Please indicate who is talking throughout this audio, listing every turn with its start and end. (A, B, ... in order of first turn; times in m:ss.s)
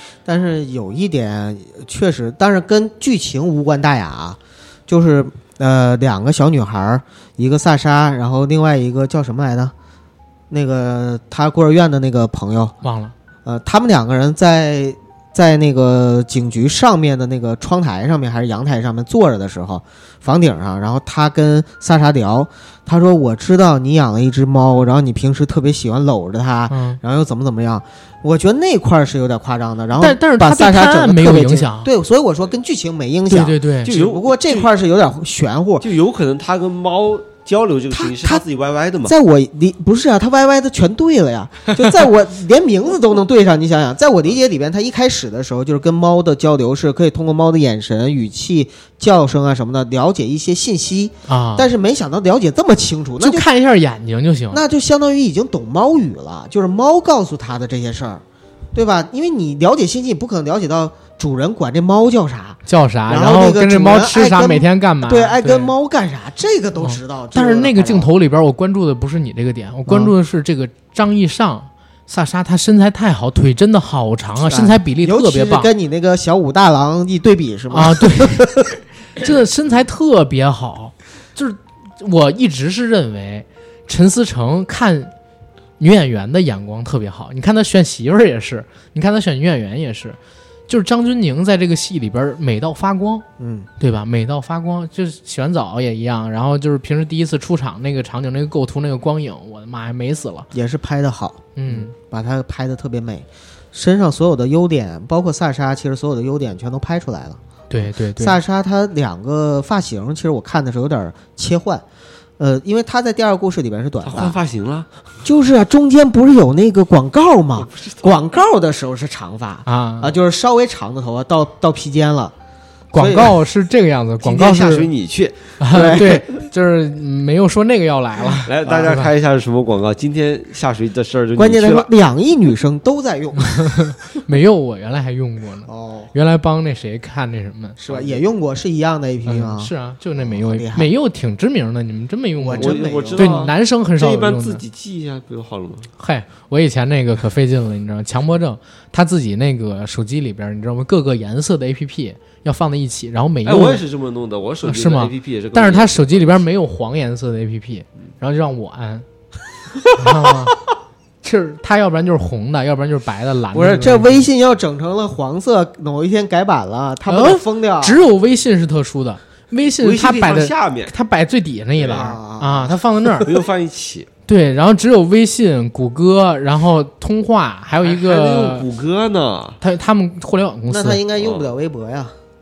0:00.2-0:09.7 A
0:10.5-0:12.8 A
0:12.8-0:13.1 B
0:13.4-0:35.8 A
0:26.7-0:27.0 B
0:30.0-0:31.9 B
0:33.3-0:33.9 B
0:33.8-0:34.7 C
0:35.8-0:39.1 C
0:37.9-0:38.4 A
0:39.0-0:53.4 A
0:51.3-0:51.7 B
0:53.2-0:54.6 B
0:54.5-1:08.1 A
1:02.7-1:05.7 B
1:06.8-1:15.7 B
1:09.9-1:10.1 A
1:14.5-1:18.6 A
1:17.7-1:18.6 B
1:19.2-1:25.1 B
1:25.8-1:30.2 B
1:30.7-1:33.2 B
1:33.4-1:33.7 A
1:33.8-1:40.5 B
1:40.5-1:47.4 A
1:41.6-1:41.9 B
1:47.7-1:48.4 B
1:48.2-1:51.8 A
1:52.4-1:54.4 A
1:54.0-1:54.9 C
1:55.2-2:02.3 A
1:57.6-1:58.2 C
1:59.6-2:00.1 B
2:02.9-2:04.9 B
2:02.9-2:03.4 A
2:04.2-2:05.6 C
2:05.6-2:09.1 B
2:05.7-2:06.2 A
2:08.4-2:11.9 C
2:08.7-2:08.9 A
2:11.4-2:13.9 A
2:13.7-2:17.8 B
2:15.6-2:16.1 A
2:17.8-2:20.9 A
2:17.8-2:18.2 C
2:19.2-2:24.6 B
2:22.4-2:23.5 A
2:22.5-2:25.9 C
2:26.0-2:33.8 B
2:33.4-2:36.4 C
2:34.6-2:39.0 B
2:40.0-2:40.5 B
2:41.2-2:44.2 B
2:43.5-2:48.0 A
2:47.1-2:53.3 B
2:49.8-2:50.9 C
2:51.8-2:53.2 A
2:53.2-2:54.1 C
2:54.3-2:58.6 B
2:57.8-2:59.6 C
2:59.6-3:01.0 B
3:00.7-3:02.2 A
3:01.2-3:01.5 C